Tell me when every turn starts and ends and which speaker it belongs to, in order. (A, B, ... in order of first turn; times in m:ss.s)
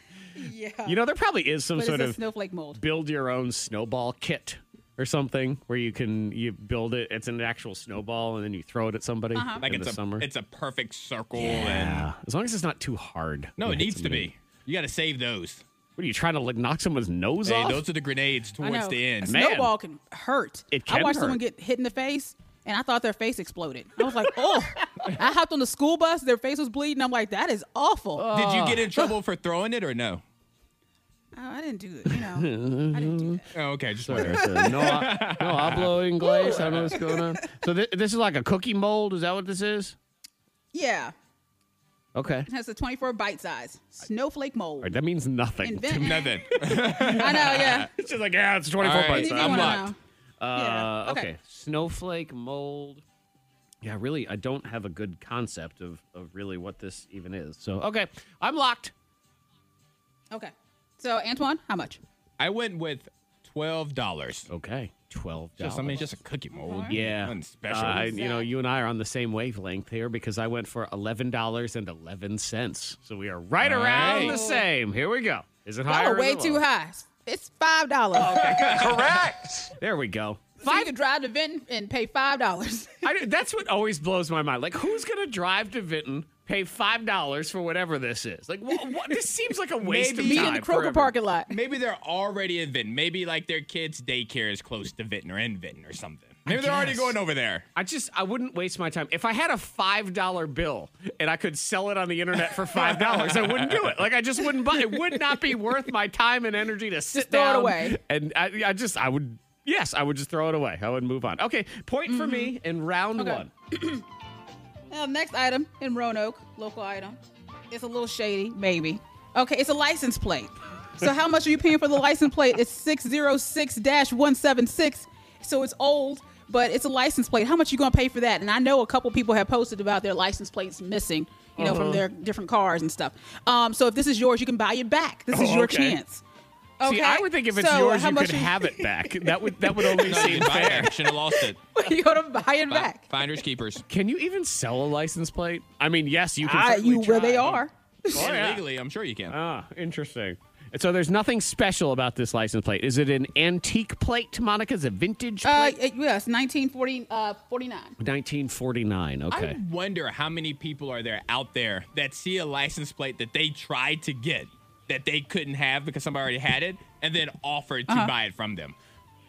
0:00.3-0:01.0 A
0:00.8-0:02.2 B
0:01.8-0:02.8 A
0:02.7-0:10.3 B
0:09.3-0:09.6 A
0:09.6-0:12.1 C
0:11.4-0:14.3 B
0:13.6-0:15.6 C
0:16.0-0:17.8 B
0:17.4-0:19.4 C
0:18.6-0:28.3 A
0:19.2-0:19.7 B
0:20.7-0:21.4 B
0:28.2-0:28.9 B
0:28.3-0:30.2 C
0:31.3-0:33.5 A
0:32.1-0:33.4 B
0:33.5-0:36.0 C
0:34.0-0:40.0 B
0:34.1-0:35.0 A
0:36.2-0:37.5 A
0:36.6-0:36.9 C
0:40.7-0:41.1 A
0:42.1-0:42.5 B
0:42.5-0:44.9 A
0:44.8-0:53.0 B
0:45.6-0:46.4 A
0:46.0-0:47.9 C
0:47.0-0:47.9 A
0:48.8-0:49.9 C
0:49.1-0:50.0 A
0:50.5-0:51.3 A
0:53.8-0:58.9 B
1:00.3-1:02.0 A
1:02.4-1:04.5 C
1:04.5-1:06.0 B
1:05.6-1:08.2 C
1:06.5-1:06.9 A
1:06.9-1:16.6 B
1:08.0-1:08.5 A
1:13.6-1:14.4 C
1:13.9-1:14.6 A
1:15.9-1:18.6 A
1:18.1-1:20.9 B
1:18.4-1:19.3 C
1:20.6-1:23.0 A
1:23.0-1:31.1 B
1:29.8-1:30.6 C
1:30.2-1:31.6 A
1:31.5-1:37.7 C
1:36.4-1:37.2 B
1:37.7-1:53.5 B
1:42.8-1:43.9 C
1:44.8-1:45.2 A
1:47.1-1:48.0 A
1:52.1-1:52.5 A
1:53.2-1:54.0 A
1:54.9-1:57.2 A
1:57.7-2:16.2 A
2:11.6-2:12.0 B
2:15.3-2:16.0 B
2:16.8-2:20.3 A
2:16.8-2:20.9 B
2:20.0-2:21.6 C
2:21.7-2:23.1 A
2:22.7-2:23.8 C
2:23.9-2:28.6 B
2:26.4-2:28.2 A
2:28.1-2:29.4 C
2:29.3-2:35.8 B
2:35.4-2:38.0 A
2:38.0-2:39.6 B
2:39.3-2:48.8 C
2:47.9-2:48.1 A